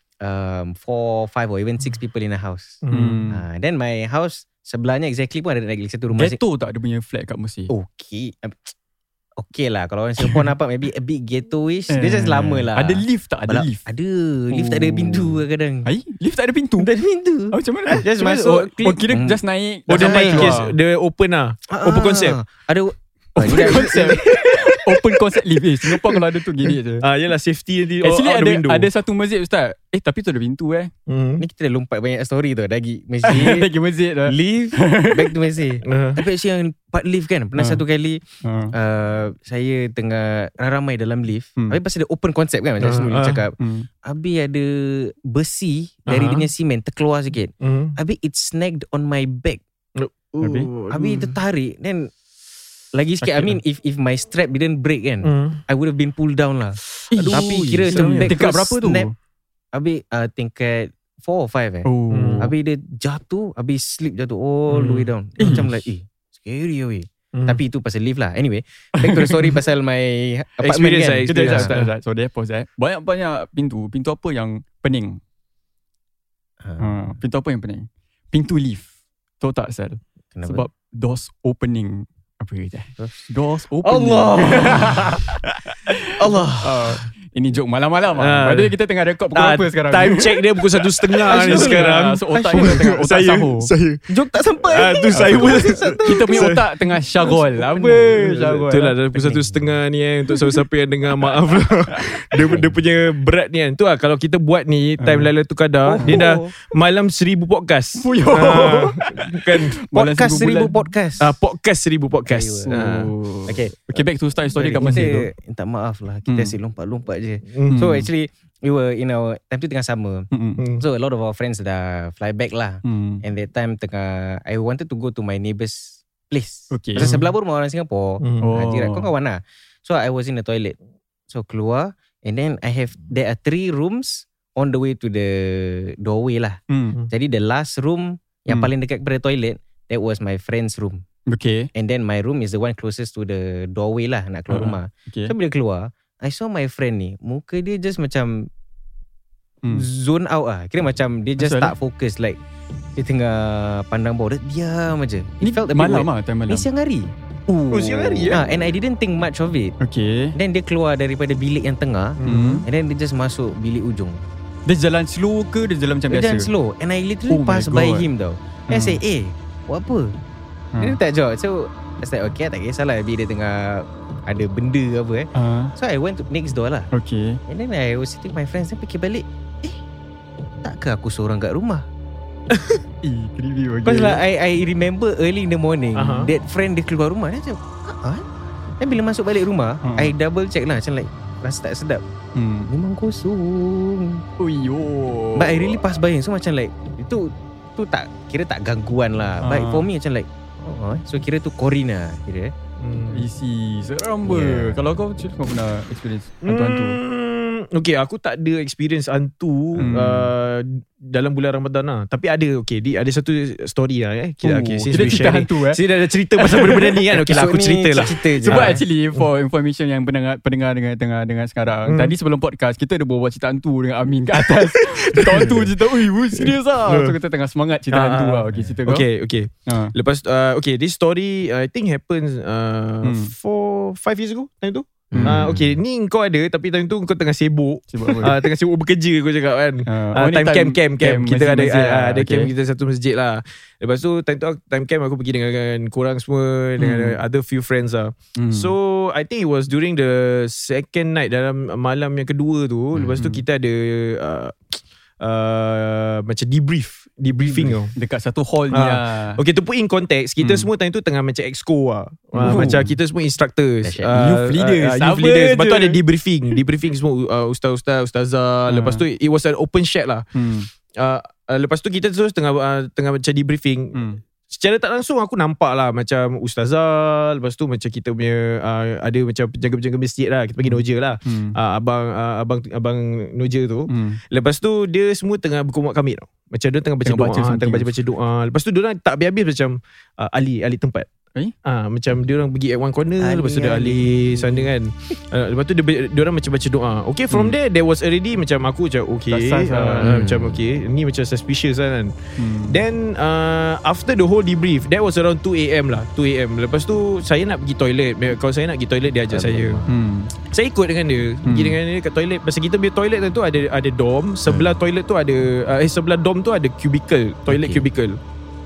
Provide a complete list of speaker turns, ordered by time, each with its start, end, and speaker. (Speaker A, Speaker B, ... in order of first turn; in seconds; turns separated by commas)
Speaker A: 0.2-6.4, Speaker B: 2.8-3.2, Speaker C: 2.9-3.4, Speaker C: 6.1-7.7, Speaker A: 7.7-8.7, Speaker A: 9.4-15.9, Speaker C: 11.9-13.9, Speaker C: 14.5-16.9, Speaker A: 16.8-19.4, Speaker C: 17.5-20.7, Speaker B: 18.1-19.0, Speaker B: 19.9-22.4, Speaker A: 19.9-20.6, Speaker A: 21.7-24.8, Speaker C: 23.4-27.1, Speaker B: 27.0-28.9, Speaker C: 28.0-30.9, Speaker B: 31.1-31.4, Speaker A: 31.4-33.7, Speaker C: 33.2-35.3, Speaker A: 34.3-49.6, Speaker B: 35.9-36.2, Speaker C: 38.4-38.7, Speaker B: 42.8-43.4, Speaker C: 43.6-43.9, Speaker B: 46.1-46.5, Speaker B: 47.6-48.0, Speaker B: 50.0-51.4, Speaker C: 50.4-50.7, Speaker A: 50.9-52.1, Speaker A: 52.9-59.1, Speaker C: 53.2-53.6, Speaker B: 55.2-55.6, Speaker C: 57.1-59.1, Speaker B: 57.2-58.4, Speaker A: 59.7-61.9, Speaker C: 61.9-62.5, Speaker B: 62.1-62.5, Speaker A: 62.4-71.7, Speaker B: 64.7-65.7, Speaker C: 65.4-65.8, Speaker B: 67.3-67.6, Speaker C: 69.0-69.6, Speaker B: 70.6-71.9, Speaker C: 71.3-75.2, Speaker A: 76.6-77.0, Speaker C: 76.8-78.9, Speaker C: 79.4-86.1, Speaker A: 80.3-80.7, Speaker A: 83.9-84.9, Speaker B: 83.9-85.0, Speaker B: 86.2-87.0, Speaker C: 86.6-93.7, Speaker B: 88.2-88.8, Speaker B: 89.3-94.0, Speaker A: 91.3-92.8, Speaker A: 94.1-96.6, Speaker B: 94.7-96.6, Speaker C: 95.2-95.5, Speaker C: 96.0-99.0, Speaker A: 97.5-98.1, Speaker B: 97.9-109.8, Speaker A: 99.1-99.8, Speaker A: 102.5-102.8, Speaker C: 105.0-105.3, Speaker A: 105.9-106.5, Speaker C: 108.0-110.8, Speaker A: 109.9-111.3, Speaker B: 111.2-113.1, Speaker A: 112.3-112.8, Speaker C: 112.7-115.2, Speaker A: 113.5-130.8, Speaker B: 114.8-115.2, Speaker C: 116.3-116.6, Speaker B: 117.5-117.9, Speaker C: 117.7-118.1, Speaker C: 120.3-120.6, Speaker B: 120.6-120.8, Speaker C: 122.8-123.2, Speaker C: 126.7-127.1, Speaker B: 127.0-127.3, Speaker B: 128.2-128.5, Speaker C: 128.4-129.1, Speaker A: 131.3-141.0, Speaker C: 136.7-137.0, Speaker C: 141.3-141.7, Speaker A: 141.7-148.5, Speaker C: 144.5-145.3, Speaker A: 149.7-152.4, Speaker C: 151.4-151.7, Speaker A: 153.0-159.8, Speaker C: 155.4-156.7, Speaker B: 157.7-158.5, Speaker C: 159.8-160.3, Speaker A: 160.3-164.2, Speaker B: 162.2-162.6, Speaker C: 162.2-162.7, Speaker C: 164.7-166.5, Speaker A: 166.1-170.2, Speaker C: 167.3-168.1, Speaker C: 168.7-169.0, Speaker A: 170.8-176.9, Speaker C: 175.3-175.7, Speaker C: 176.9-177.4, Speaker A: 177.5-179.8, Speaker A: 180.6-181.9, Speaker B: 182.5-182.8, Speaker C: 183.0-184.2, Speaker A: 183.8-188.2, Speaker B: 185.9-186.3, Speaker A: 188.8-192.0, Speaker C: 189.8-190.1, Speaker C: 192.4-192.7, Speaker A: 192.7-194.2, Speaker C: 194.4-195.8, Speaker A: 195.4-202.5, Speaker C: 199.4-199.9, Speaker B: 202.8-203.2, Speaker C: 203.1-207.0, Speaker A: 204.2-204.9, Speaker B: 206.4-219.3, Speaker C: 209.8-210.3, Speaker C: 214.4-215.8, Speaker C: 216.4-217.0, Speaker A: 217.2-218.8, Speaker C: 218.4-229.1, Speaker B: 221.9-222.1, Speaker B: 224.4-227.2, Speaker B: 227.9-257.9, Speaker C: 229.7-229.9, Speaker C: 233.0-233.3, Speaker A: 235.1-235.7, Speaker C: 235.2-235.4, Speaker C: 237.9-238.4, Speaker C: 239.9-242.5, Speaker C: 246.8-247.2, Speaker C: 248.4-248.7, Speaker C: 253.1-253.4, Speaker C: 257.4-259.4, Speaker B: 258.7-270.2, Speaker C: 260.4-260.7, Speaker C: 262.4-262.9, Speaker A: 263.8-264.2, Speaker C: 264.2-266.0, Speaker C: 268.7-269.0, Speaker C: 270.4-270.7, Speaker B: 271.0-274.0, Speaker C: 273.9-274.2, Speaker B: 274.5-291.1, Speaker C: 280.6-281.6, Speaker C: 283.9-284.2, Speaker C: 287.0-288.0, Speaker B: 291.6-302.1, Speaker A: 293.2-294.7, Speaker C: 299.3-300.2, Speaker A: 300.0-300.6, Speaker C: 302.4-302.8, Speaker B: 302.7-309.8, Speaker A: 309.3-309.9, Speaker C: 309.9-310.3, Speaker B: 310.4-318.2, Speaker C: 311.4-311.8, Speaker A: 317.5-317.8